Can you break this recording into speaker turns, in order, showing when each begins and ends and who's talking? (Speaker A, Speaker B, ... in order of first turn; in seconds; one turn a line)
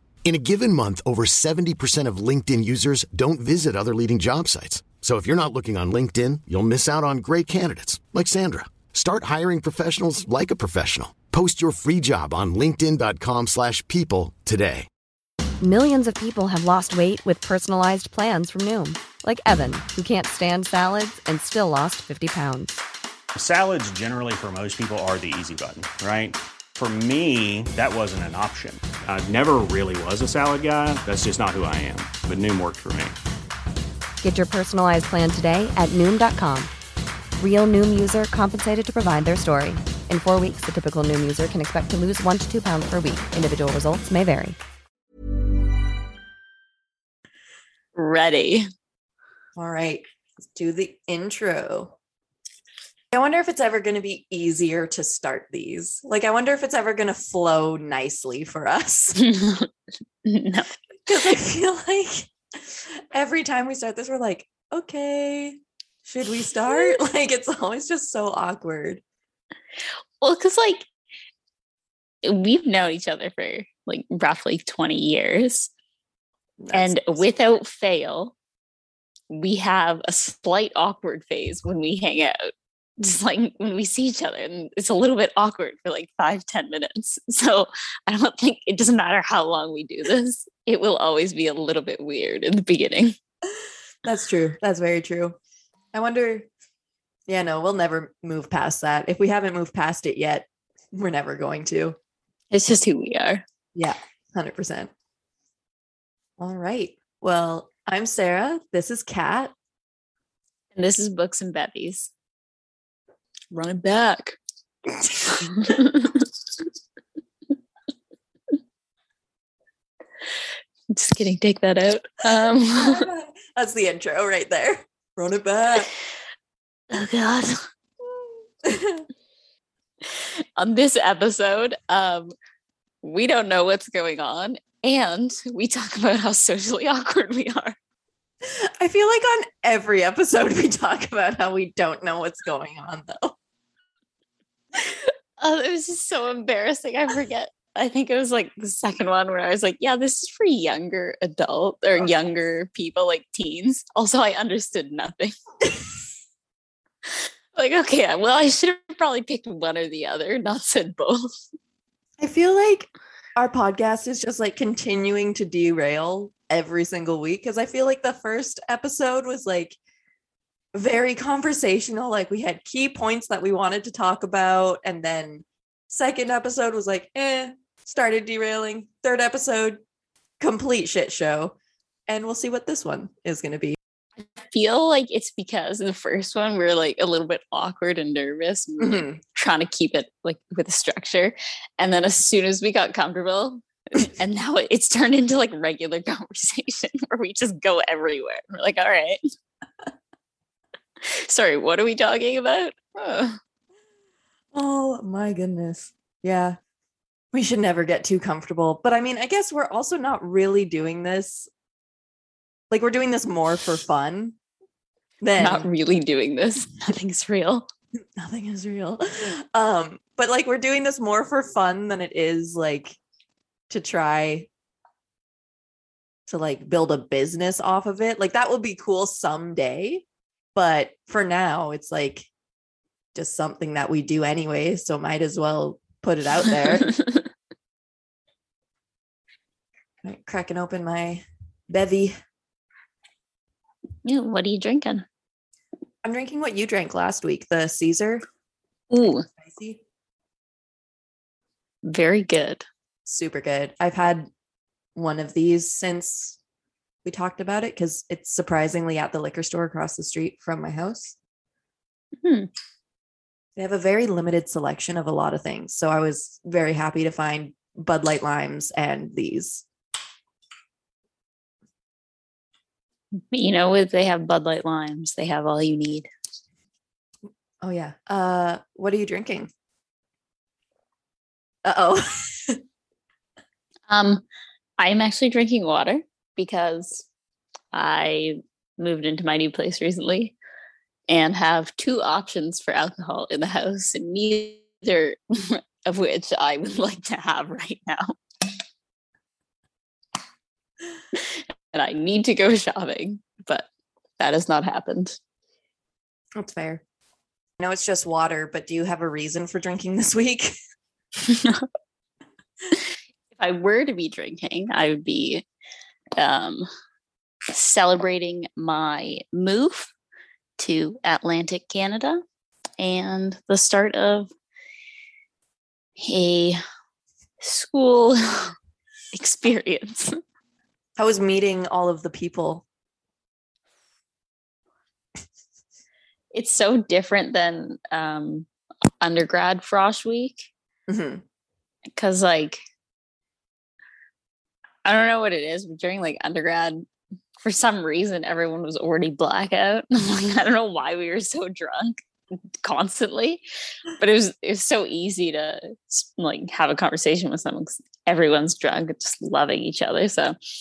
Speaker A: 0.2-14.9
Speaker B: 15.6-22.8
Speaker C: 23.4-33.1
Speaker B: 34.2-36.7
Speaker B: 37.4-44.6
Speaker D: 48.0-48.7
Speaker E: 49.6-51.9
Speaker E: 53.1-59.2
Speaker D: 59.2-59.7
Speaker D: 60.2-60.7
Speaker E: 61.1-69.0
Speaker D: 70.2-70.9
Speaker D: 72.2-75.7
Speaker E: 76.6-77.2
Speaker D: 76.7-78.3
Speaker D: 79.3-93.2
Speaker E: 94.0-95.4
Speaker E: 95.9-96.5
Speaker E: 97.3-102.0
Speaker D: 102.5-103.4
Speaker E: 103.8-104.9
Speaker E: 106.4-109.5
Speaker D: 110.8-112.1
Speaker D: 113.5-114.4
Speaker D: 115.2-116.3
Speaker D: 120.9-123.1
Speaker E: 122.8-125.9
Speaker D: 126.9-127.6
Speaker E: 128.6-129.0
Speaker D: 130.0-132.3
Speaker D: 133.0-137.8
Speaker E: 138.4-143.3
Speaker D: 144.8-155.3
Speaker D: 157.5-161.2
Speaker E: 162.2-169.8
Speaker E: 170.7-179.8
Speaker E: 180.4-181.5
Speaker E: 182.1-183.8
Speaker D: 184.2-199.2
Speaker E: 188.8-189.2
Speaker D: 201.1-203.4
Speaker E: 204.5-206.6
Speaker E: 207.3-211.5
Speaker E: 212.7-214.3
Speaker E: 215.2-215.7
Speaker D: 215.4-217.7
Speaker E: 218.2-223.0
Speaker E: 223.7-224.5
Speaker E: 226.3-230.0
Speaker E: 230.5-232.3
Speaker E: 233.1-236.9
Speaker D: 236.9-237.2
Speaker E: 240.0-242.2
Speaker D: 244.1-245.1
Speaker E: 246.0-248.2
Speaker D: 248.9-249.2
Speaker E: 249.4-249.8
Speaker D: 251.8-252.7
Speaker E: 253.1-254.3
Speaker E: 254.9-256.4
Speaker E: 257.1-261.1
Speaker D: 262.2-262.5
Speaker E: 263.6-269.6
Speaker D: 273.3-276.1
Speaker E: 277.6-279.5
Speaker E: 281.6-282.6
Speaker D: 283.9-284.2
Speaker D: 284.8-287.1
Speaker D: 287.7-290.3
Speaker D: 291.1-298.1
Speaker D: 301.1-303.7
Speaker D: 304.2-305.2
Speaker E: 306.4-306.8
Speaker E: 307.6-310.6
Speaker D: 311.2-311.6
Speaker D: 313.3-315.4
Speaker D: 316.2-316.7
Speaker D: 317.5-319.9
Speaker D: 320.6-322.2
Speaker D: 322.8-324.3
Speaker D: 326.0-326.6
Speaker D: 327.4-328.5
Speaker D: 329.1-330.1
Speaker E: 331.0-332.6
Speaker D: 336.3-338.5
Speaker D: 339.0-340.5
Speaker E: 340.9-341.2
Speaker D: 341.9-342.6
Speaker D: 344.8-346.9
Speaker D: 347.4-352.0
Speaker D: 352.6-353.4
Speaker D: 353.9-360.4